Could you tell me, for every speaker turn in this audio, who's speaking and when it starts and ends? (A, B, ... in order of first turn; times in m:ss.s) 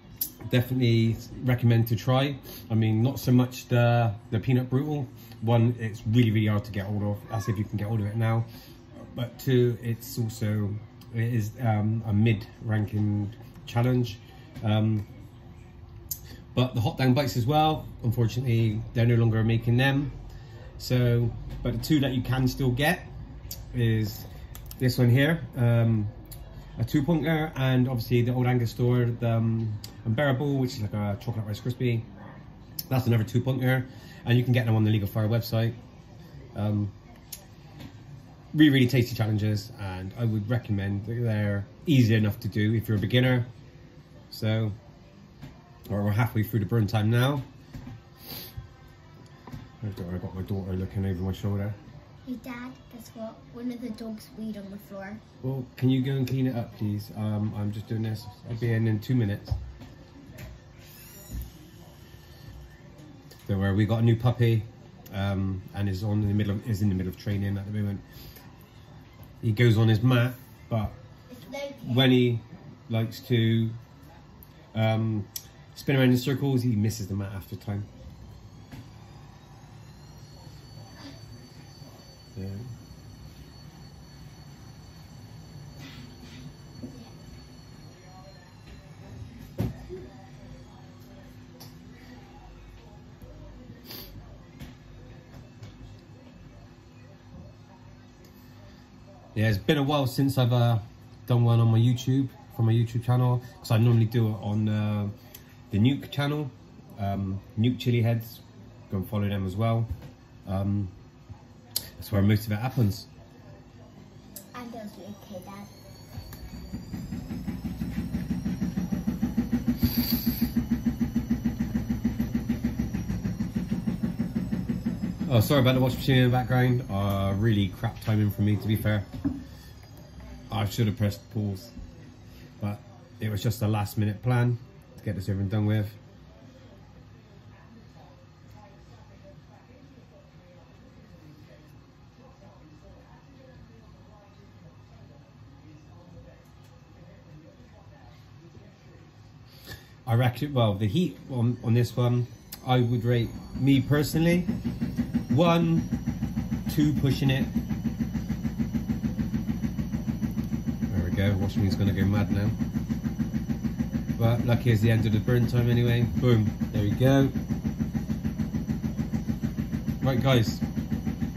0:00.4-0:08.5 A
0:09.1-0:15.1 A
0:16.5-0:20.1 A
0:20.8-0:23.1 A
0:23.7-0:24.3 A
0:24.8-0:26.1 A
0:26.8-0:32.1 A
0:32.9-0:35.8 A
0:36.5-0:36.9 A
0:38.5-0:43.5 A
0:44.3-0:44.8 A
0:45.9-0:47.5 A
0:49.8-0:51.8 A
0:52.2-0:55.2 B
0:55.4-0:59.6 A
1:03.5-1:08.0 A
1:09.4-1:11.0 A
1:11.3-1:12.1 B
1:11.8-1:13.8 A
1:14.7-1:17.9 A
1:22.4-1:22.7 A
1:39.4-1:45.2 A
1:45.7-1:49.9 A
1:50.4-1:50.9 A
1:52.0-1:53.1 A
1:54.5-1:55.7 B
2:05.3-2:09.1 A
2:10.5-2:11.8 A
2:12.6-2:16.0 A
2:30.1-2:34.5 A
2:35.3-2:35.9 A
2:36.7-2:37.5 A
2:40.9-2:42.6 A
2:44.2-2:47.4 A
2:50.0-2:50.6 A